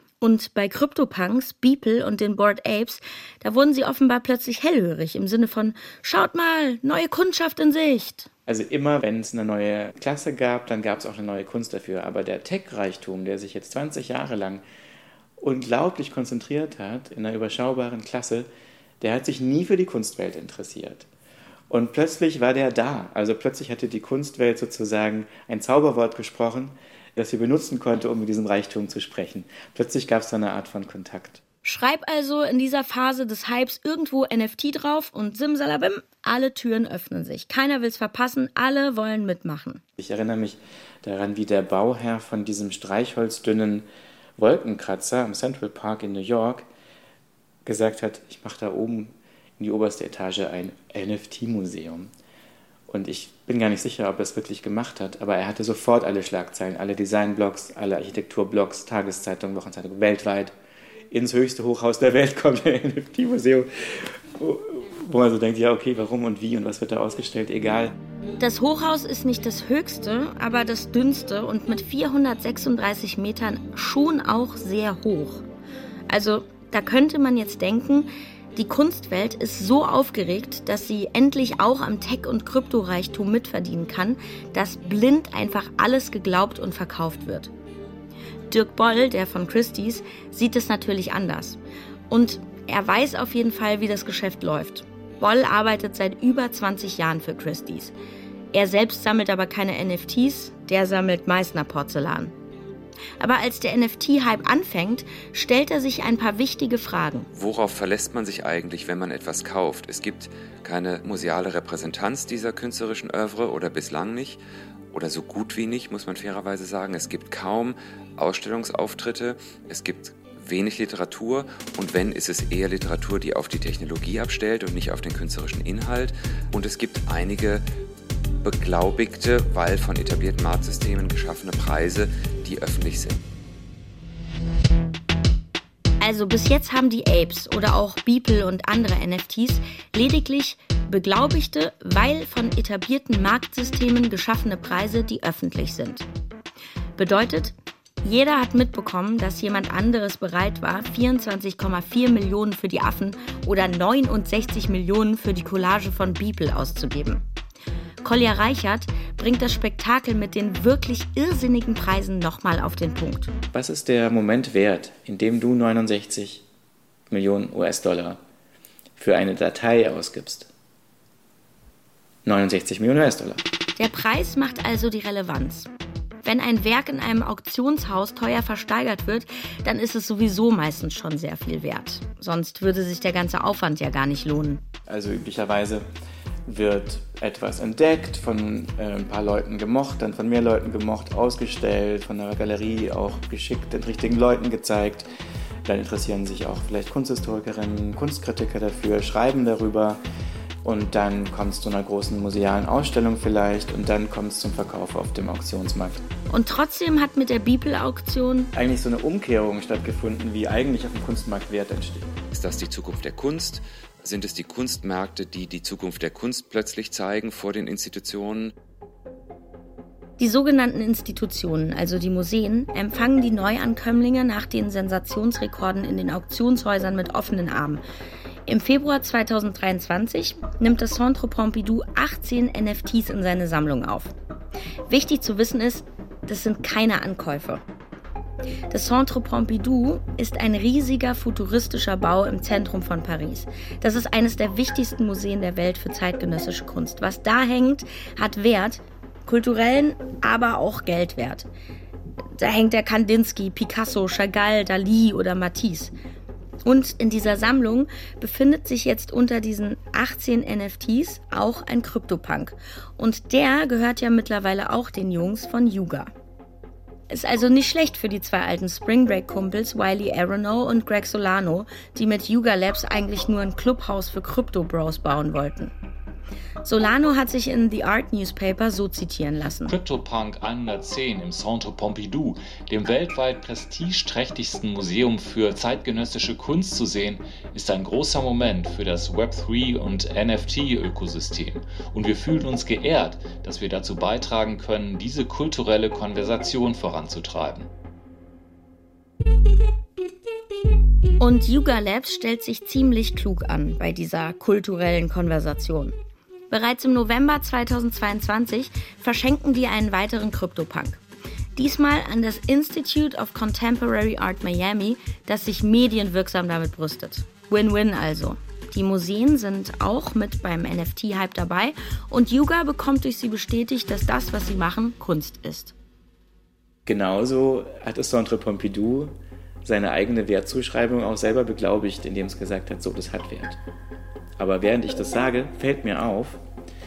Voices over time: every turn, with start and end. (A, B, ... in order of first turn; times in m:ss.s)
0:00.2-0:08.3 A
0:08.5-0:14.6 B
0:15.4-0:18.5 B
0:19.0-0:21.1 B
0:21.7-0:31.4 B
0:31.6-0:39.8 A
0:40.0-0:43.9 B
0:44.4-0:46.7 B
0:47.7-0:52.1 B
0:52.9-1:00.5 B
1:01.1-1:08.0 B
1:08.4-1:15.4 A
1:16.1-1:27.5 A
1:28.5-1:31.6 A
1:32.1-1:37.9 A
1:38.5-1:42.3 A
1:43.2-1:47.3 A
1:47.3-1:54.4 C
1:54.9-2:07.6 C
2:08.4-2:13.2 C
2:16.0-2:26.1 A
2:27.0-2:37.2 A
2:38.0-2:43.3 A
2:43.5-2:46.4 B
2:47.1-2:48.2 B
2:49.0-2:50.5 B
2:52.2-2:53.4 B
2:53.8-2:55.7 A
2:56.2-3:04.6 A
3:04.9-3:05.8 B
3:06.5-3:15.1 B
3:15.6-3:20.0 B
3:20.6-3:26.0 B
3:26.3-3:28.5 A
3:28.5-3:32.1 B
3:32.3-3:38.5 C
3:40.2-3:47.8 A
3:48.5-3:54.1 A
3:54.9-3:57.6 A
3:58.7-4:11.5 A
4:12.4-4:15.9 A
4:16.6-4:26.1 A
4:27.1-4:35.7 A
4:36.6-4:39.7 A
4:39.7-4:57.7 D
5:01.2-5:06.0 A
5:06.5-5:11.0 A
5:11.6-5:25.7 A
5:26.9-5:33.6 B
5:34.4-5:36.4 B